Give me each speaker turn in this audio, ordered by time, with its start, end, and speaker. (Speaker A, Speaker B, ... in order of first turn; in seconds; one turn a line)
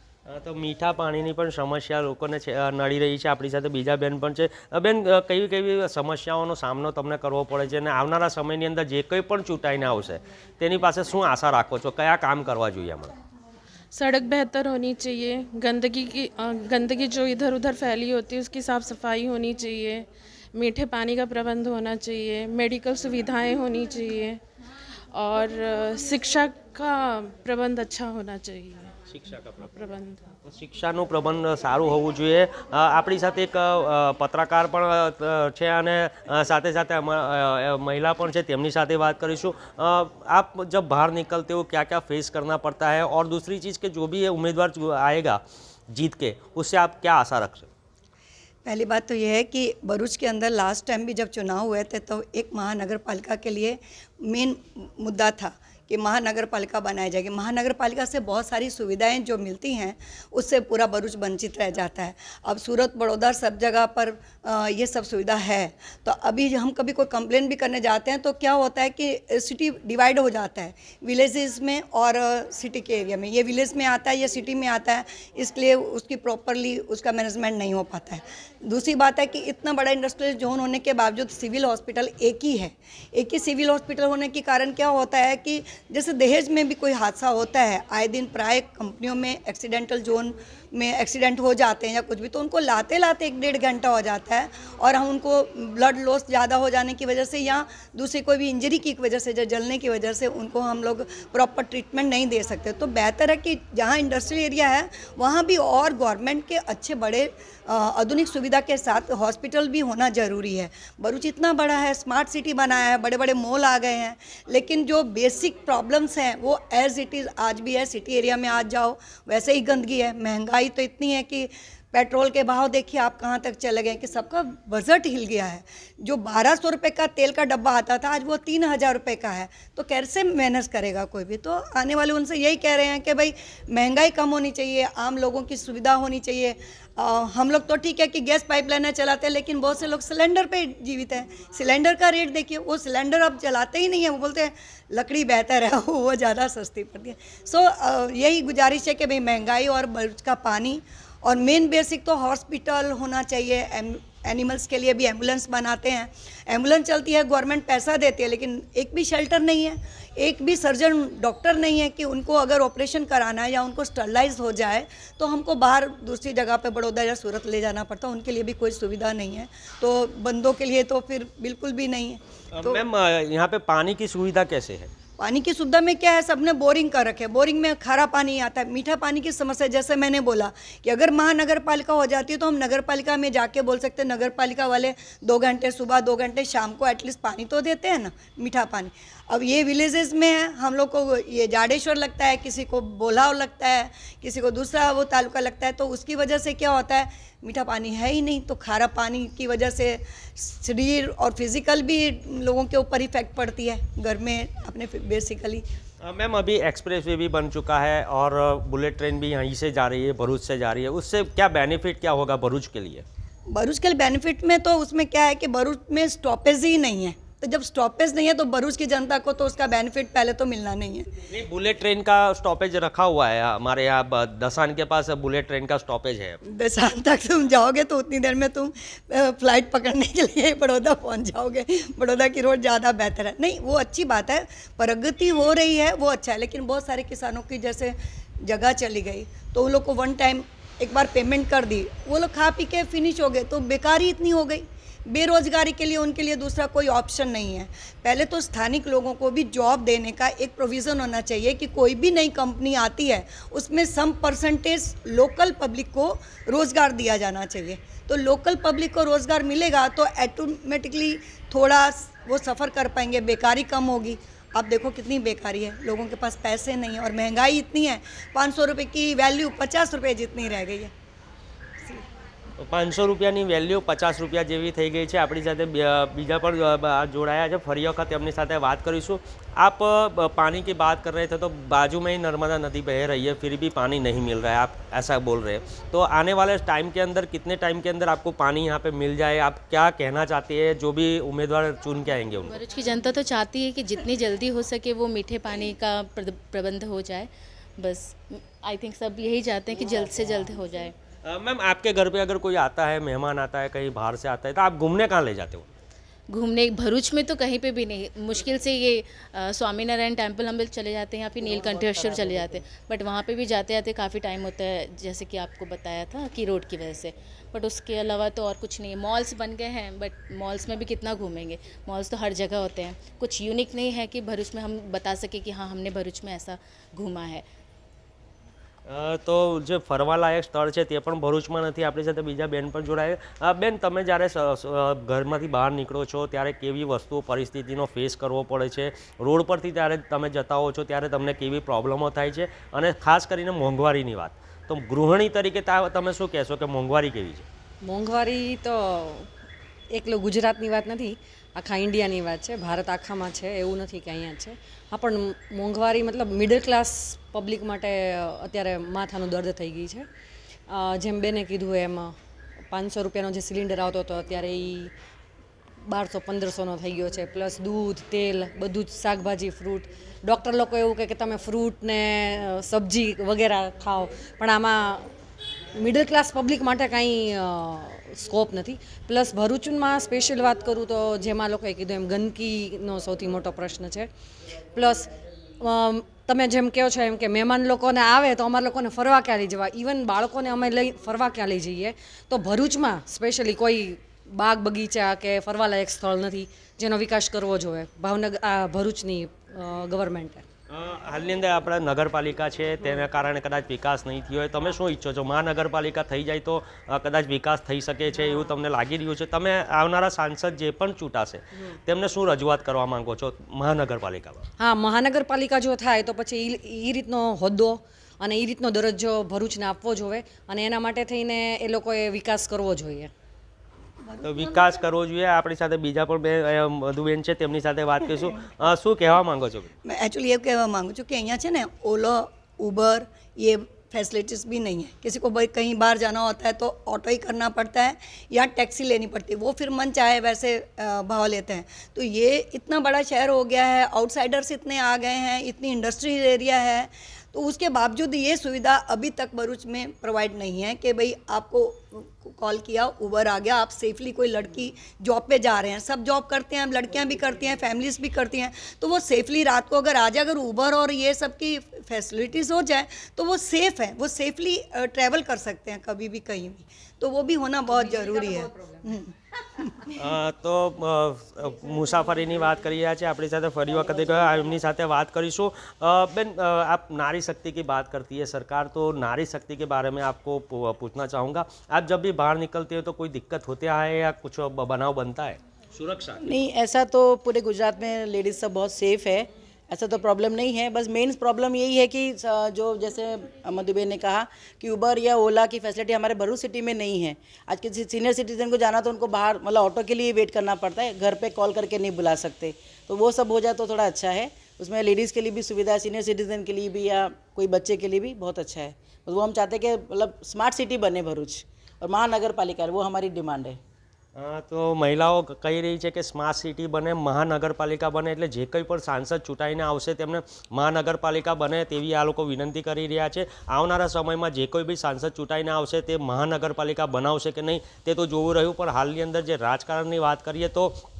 Speaker A: 0.3-13.1
Speaker B: 13.9-24.4
Speaker B: 25.1-28.9
Speaker A: 29.1-29.7
Speaker B: 29.6-30.2
Speaker A: 30.4-47.7
Speaker C: 48.6-172.8
Speaker A: 172.5-174.9
Speaker C: 175.2-205.6
Speaker A: 206.0-213.0
Speaker C: 213.5-221.1
Speaker A: 221.3-226.4
Speaker C: 226.5-270.9
Speaker A: 272.6-292.6
Speaker D: 292.4-300.9
Speaker A: 301.2-305.7
Speaker D: 306.3-327.4
Speaker E: 311.6-312.5
Speaker A: 328.9-347.4
Speaker F: 347.8-349.3
Speaker F: 349.9-360.1
Speaker F: 360.7-362.1
Speaker F: 362.7-364.9
Speaker F: 365.9-375.1
Speaker F: 375.8-384.1
Speaker F: 384.7-400.4
Speaker A: 400.7-414.4
Speaker F: 414.6-423.1
Speaker C: 424.0-424.8
Speaker A: 424.2-429.7
Speaker C: 429.8-469.9
Speaker A: 470.0-486.2
Speaker E: 486.2-513.6
Speaker A: 514.1-530.7